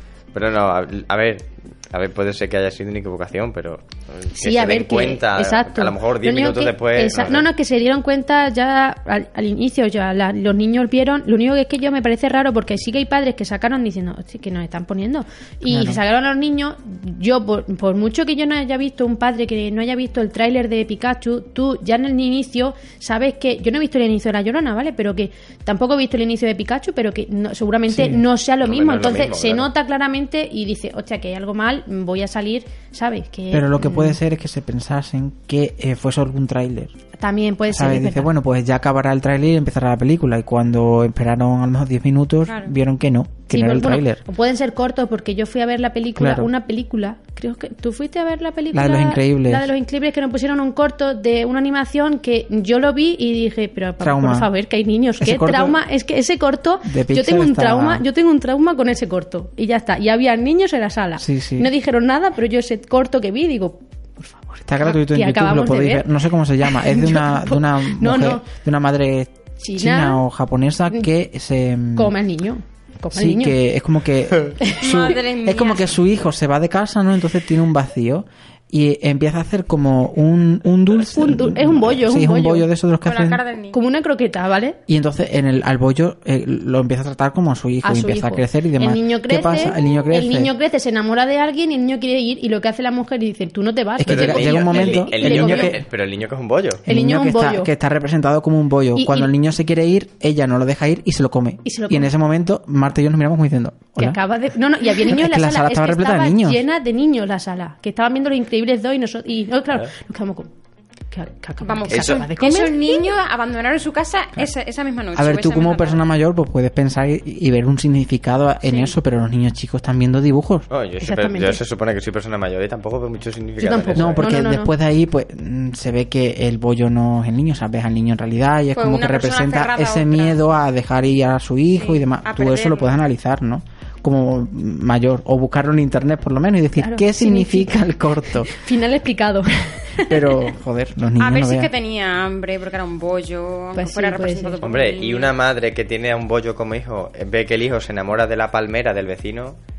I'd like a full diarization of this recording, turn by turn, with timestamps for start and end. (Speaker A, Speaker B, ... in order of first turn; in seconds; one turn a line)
Speaker A: 0.3-7.5
Speaker B: 4.4-34.2
Speaker C: 15.7-16.0
Speaker C: 27.9-28.2
Speaker A: 28.6-29.7
Speaker C: 33.5-36.9
Speaker B: 37.2-38.3
Speaker C: 37.7-44.2
Speaker D: 42.5-42.7
Speaker B: 43.5-66.1
Speaker C: 46.2-46.5
Speaker C: 48.7-49.7
Speaker C: 54.0-54.5
Speaker C: 55.2-55.8
Speaker C: 56.8-58.0
Speaker C: 61.2-61.7
Speaker C: 64.7-72.1
Speaker B: 66.6-68.5
Speaker B: 69.6-70.2
Speaker B: 72.0-73.5
Speaker C: 73.1-83.4
Speaker D: 74.8-76.0
Speaker B: 81.1-82.7
Speaker D: 83.0-83.8
Speaker B: 83.7-84.8
Speaker C: 84.9-90.5
Speaker B: 87.8-95.8
Speaker C: 94.0-95.8
Speaker A: 94.0-96.8
Speaker C: 96.8-104.2
Speaker B: 96.9-97.7
Speaker B: 98.9-99.3
Speaker B: 101.6-102.1
Speaker B: 104.0-110.5
Speaker C: 104.9-106.6
Speaker B: 111.1-113.0
Speaker D: 111.6-116.0
Speaker A: 111.9-112.2
Speaker C: 115.1-120.7
Speaker A: 120.7-124.3
Speaker B: 121.0-121.6
Speaker B: 123.6-124.7
Speaker C: 123.9-138.6
Speaker D: 128.7-130.4
Speaker D: 131.7-133.0
Speaker B: 136.8-140.3
Speaker C: 140.0-141.7
Speaker D: 141.2-145.3
Speaker B: 143.8-144.6
Speaker A: 144.6-149.6